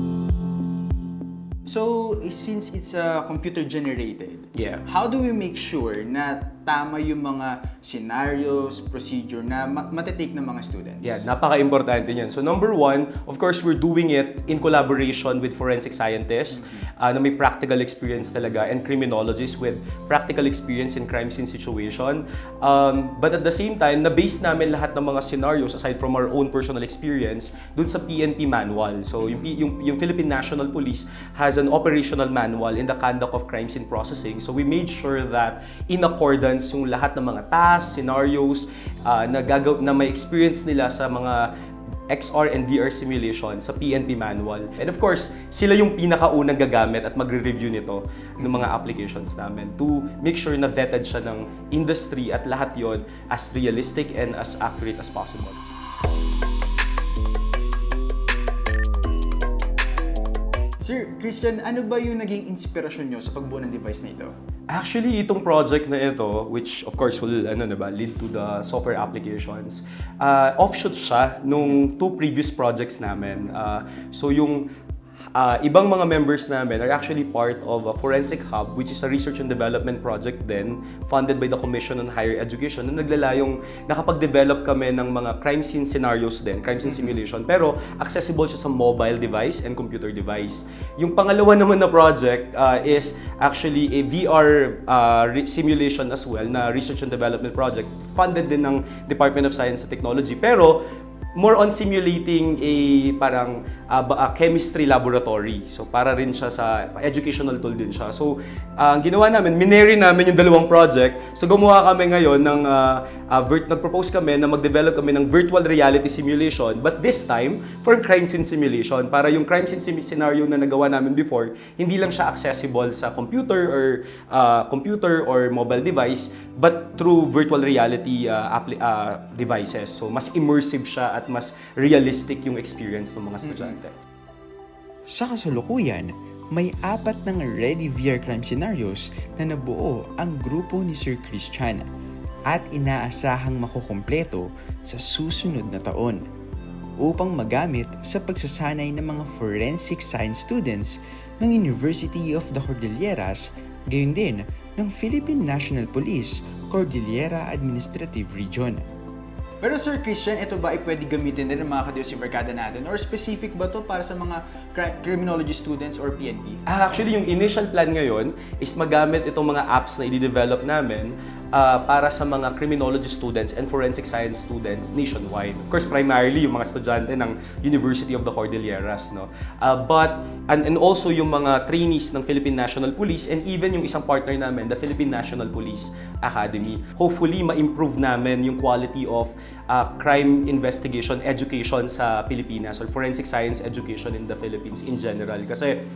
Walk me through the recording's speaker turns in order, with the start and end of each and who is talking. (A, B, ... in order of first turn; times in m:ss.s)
0:01.6-0:11.2 A
0:11.0-0:41.5 B
0:16.5-0:16.8 A
0:42.1-0:55.6 B
1:00.8-1:04.3 A
1:04.7-1:14.7 B
1:15.4-1:40.8 B
1:26.8-1:27.1 A
1:41.4-2:13.9 B
2:13.4-2:13.8 A
2:15.1-2:21.9 C
2:22.5-2:26.2 C
2:27.0-2:38.8 C
2:39.6-2:46.6 A
2:46.6-3:15.8 B